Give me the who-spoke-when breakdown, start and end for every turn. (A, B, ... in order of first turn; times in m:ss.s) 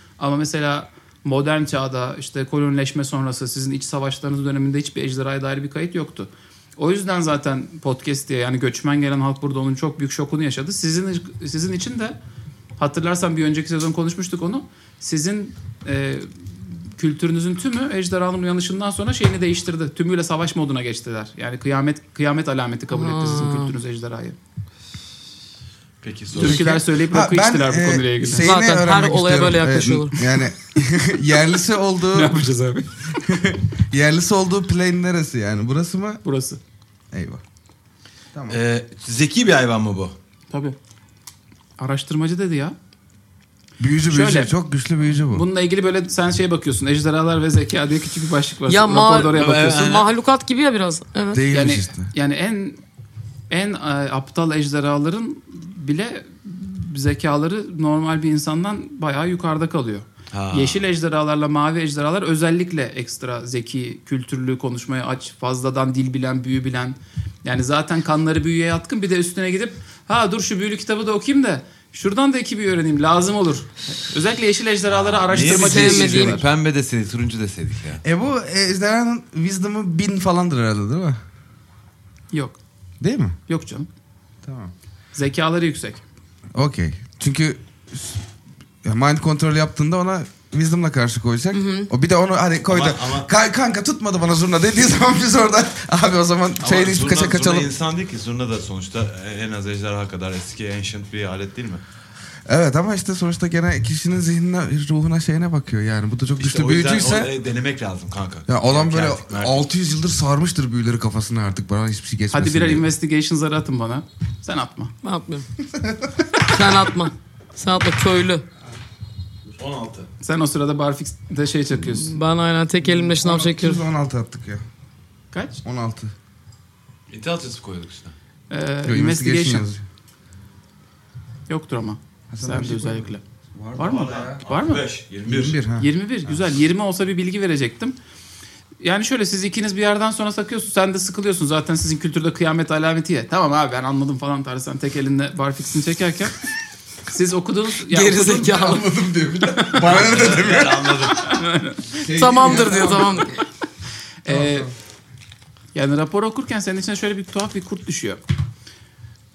0:00.2-0:12.2 A
0:12.8-0:24.4 A
0:22.9-0:23.7 B
0:26.0-0:26.7 C
0:26.3-0:28.5 A
0:26.4-0:32.3 D
0:28.4-0:30.2 B
0:32.1-0:33.0 A
0:33.2-0:36.2 D
0:36.2-0:36.6 A
0:37.1-0:37.4 D
0:38.3-0:38.6 D
0:38.5-0:40.1 C
0:40.5-0:40.8 A
0:41.8-0:42.7 A
0:43.8-0:45.4 D
0:44.1-0:44.5 A
0:45.1-0:50.0 A
0:48.7-0:51.4 B
0:49.3-0:50.0 C
0:51.3-0:52.1 D
0:51.5-0:52.8 A
0:53.5-1:16.4 A
1:00.3-1:00.8 C
1:14.9-1:18.0 C
1:15.4-1:16.4 B
1:18.0-1:21.2 D
1:22.3-1:22.6 A
1:23.0-1:23.4 D
1:23.5-1:23.9 A
1:24.4-1:24.7 D
1:25.1-1:26.0 A
1:26.5-1:28.2 D
1:28.8-1:37.7 D
1:31.5-1:31.9 B
1:32.7-1:33.3 C
1:36.6-1:41.8 C
1:42.5-1:47.3 D
1:46.4-1:49.6 C
1:48.5-1:52.9 D
1:52.3-1:54.9 A
1:55.0-1:55.5 B
1:55.7-1:56.2 D
1:56.4-1:58.4 B
1:59.6-2:00.1 C
2:00.2-2:02.1 A
2:01.9-2:03.8 B
2:02.8-2:04.6 D
2:05.3-2:05.6 A
2:05.6-2:06.1 D
2:07.1-2:08.1 C
2:08.5-2:09.7 A
2:08.8-2:09.8 D
2:11.5-2:13.2 A
2:12.3-2:14.4 D
2:13.8-2:14.8 A
2:13.8-2:15.6 C
2:15.3-2:15.9 D
2:15.8-2:18.0 A
2:18.8-2:26.3 A
2:27.1-2:28.8 A
2:27.9-2:28.9 B
2:28.5-2:31.1 D
2:29.5-2:29.9 A
2:29.8-2:31.3 C
2:31.2-2:32.0 A
2:31.9-2:33.3 D
2:32.0-2:33.4 B
2:34.2-2:34.7 A
2:34.3-2:34.7 D
2:35.7-2:38.2 A